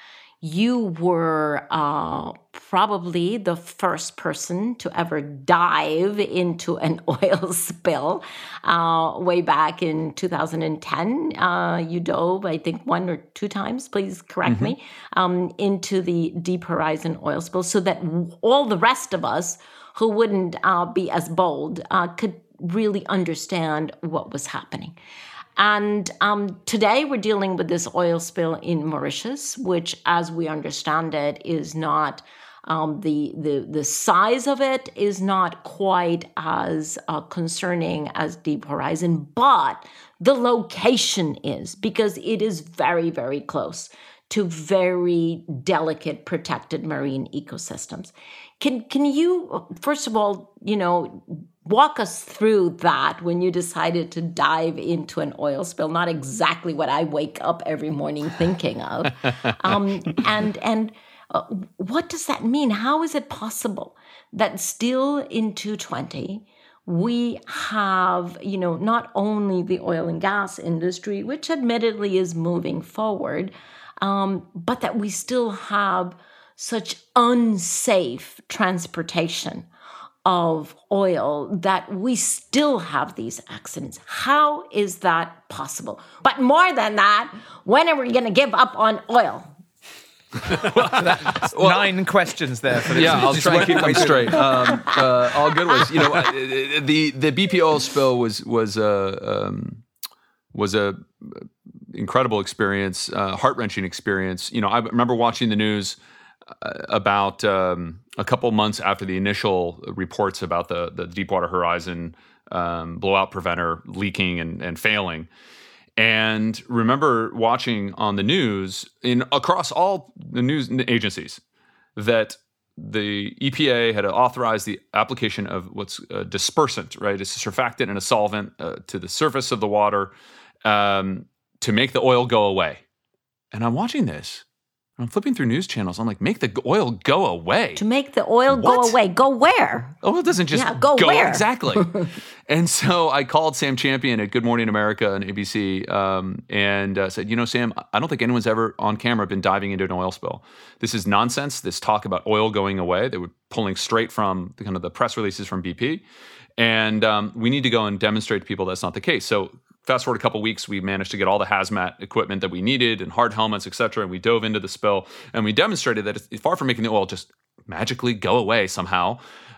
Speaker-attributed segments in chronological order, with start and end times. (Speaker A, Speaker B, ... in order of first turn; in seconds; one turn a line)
Speaker A: 0.4-24.9
Speaker B: 14.4-14.7
Speaker A: 25.6-79.7
Speaker A: 80.2-89.5
Speaker B: 90.5-91.9
Speaker C: 90.8-94.5
Speaker B: 92.9-99.8
Speaker A: 94.3-95.8
Speaker B: 100.5-106.0
Speaker B: 106.6-115.3
Speaker B: 116.0-121.4
Speaker B: 122.0-130.1
Speaker B: 130.6-132.8
Speaker B: 133.5-134.4
Speaker B: 135.0-137.8
Speaker A: 137.8-139.9
Speaker B: 138.5-139.0
Speaker B: 140.0-156.0
Speaker A: 140.5-141.9
Speaker B: 156.6-169.2